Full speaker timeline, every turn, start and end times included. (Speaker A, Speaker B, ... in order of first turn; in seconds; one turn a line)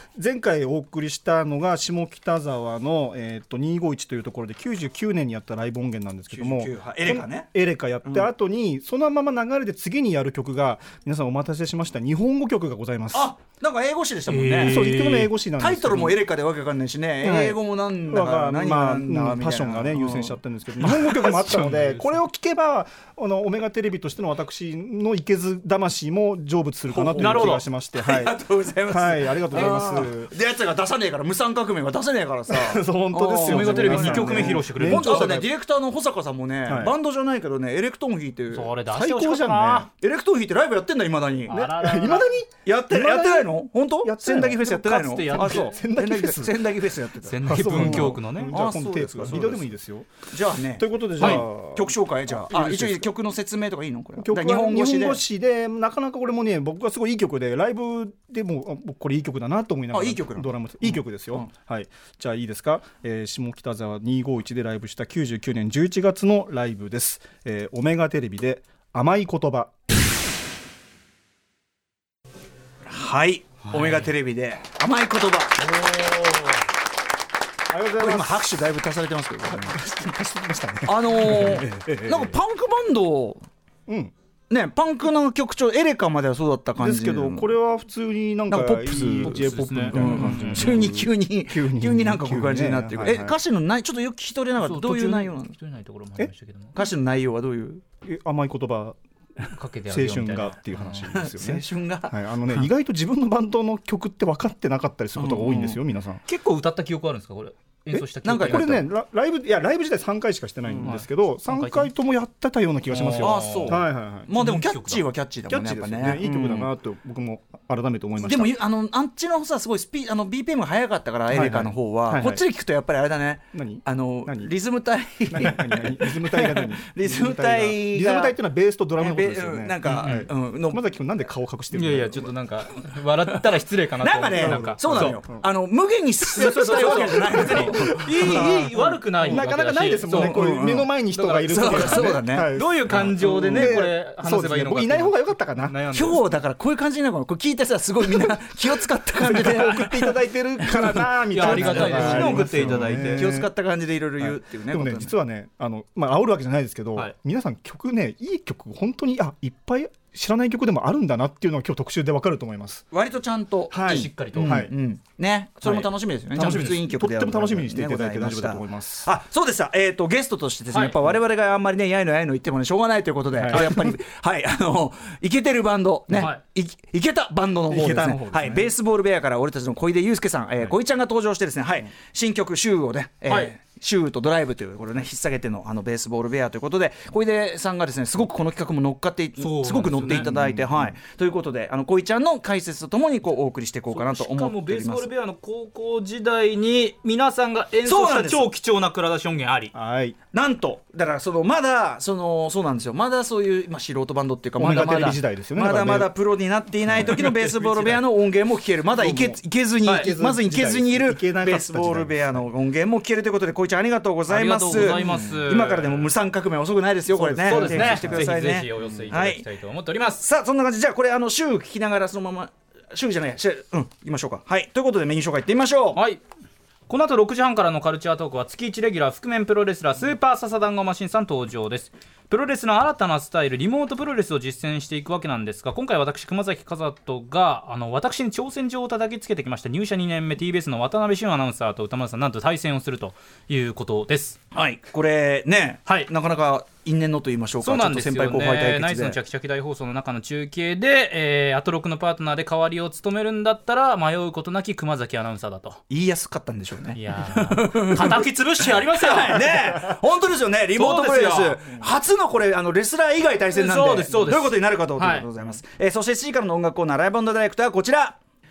Speaker A: 0.2-13.3
Speaker B: 6.3-7.5
Speaker B: 8.0-8.3
Speaker B: 13.1-15.0
Speaker C: 14.3-15.3
Speaker A: 14.6-16.2
Speaker B: 15.5-21.6
Speaker A: 17.2-30.3
Speaker C: 21.1-22.2
Speaker B: 26.9-38.7
Speaker C: 27.1-27.6
Speaker C: 29.5-30.1
Speaker A: 32.5-35.5
Speaker C: 33.4-35.5
Speaker A: 36.6-36.9
Speaker C: 38.5-39.9
Speaker A: 38.9-39.9
Speaker B: 40.0-41.6
Speaker C: 41.5-42.3
Speaker A: 41.5-44.7
Speaker B: 42.6-49.7
Speaker C: 44.4-45.8
Speaker A: 45.3-46.6
Speaker C: 47.2-48.5
Speaker A: 47.4-53.1
Speaker B: 50.3-55.2
Speaker A: 54.2-69.7
Speaker B: 59.9-61.5
Speaker B: 72.8-75.8
Speaker C: 73.7-74.1
Speaker A: 75.8-76.1
Speaker A: 77.7-78.6
Speaker B: 78.0-79.8
Speaker A: 79.5-82.4
Speaker B: 80.8-83.5
Speaker A: 83.9-84.1
Speaker B: 84.5-87.5
Speaker A: 86.8-93.4
Speaker B: 88.5-95.5
Speaker C: 89.0-90.9
Speaker C: 94.6-96.8
Speaker B: 96.7-97.8
Speaker A: 98.0-99.0
Speaker C: 99.5-101.2
Speaker A: 99.9-106.2
Speaker B: 101.1-102.2
Speaker B: 105.1-105.8
Speaker C: 106.2-108.8
Speaker A: 107.9-114.3
Speaker B: 108.2-108.8
Speaker B: 110.7-111.0
Speaker C: 110.8-111.9
Speaker C: 112.9-115.1
Speaker B: 113.2-116.7
Speaker A: 115.5-118.6
Speaker B: 118.2-128.3
Speaker A: 121.3-122.4
Speaker A: 123.5-124.5
Speaker A: 125.3-132.3
Speaker B: 129.0-130.8
Speaker C: 129.8-130.3
Speaker C: 131.7-135.2
Speaker B: 134.0-139.5
Speaker A: 134.3-135.4
Speaker C: 136.3-146.2
Speaker A: 136.4-145.8
Speaker B: 140.1-143.8
Speaker B: 145.9-155.1
Speaker A: 149.2-153.5
Speaker C: 149.5-149.9
Speaker C: 151.3-153.3
Speaker A: 154.2-162.8
Speaker B: 162.9-195.1
Speaker A: 163.7-164.7
Speaker C: 163.8-164.7
Speaker C: 165.6-166.8
Speaker A: 165.8-169.1
Speaker C: 170.7-171.2
Speaker A: 173.3-173.9
Speaker C: 176.1-176.4
Speaker A: 177.7-178.7
Speaker C: 183.2-183.5
Speaker C: 189.4-190.3
Speaker A: 190.1-190.9
Speaker C: 193.9-199.7
Speaker B: 197.8-198.5
Speaker A: 199.7-200.2
Speaker B: 200.3-219.4
Speaker A: 204.6-206.1
Speaker A: 206.9-207.2
Speaker C: 207.0-208.1
Speaker A: 209.0-212.5
Speaker C: 209.8-210.1
Speaker C: 214.3-216.1
Speaker A: 217.1-218.3
Speaker C: 217.4-220.2
Speaker B: 220.2-226.0
Speaker C: 225.9-226.2
Speaker C: 226.9-244.4
Speaker B: 244.5-249.2
Speaker C: 247.6-255.8
Speaker B: 255.9-268.2
Speaker C: 256.9-259.9
Speaker C: 260.8-261.8
Speaker C: 263.5-265.3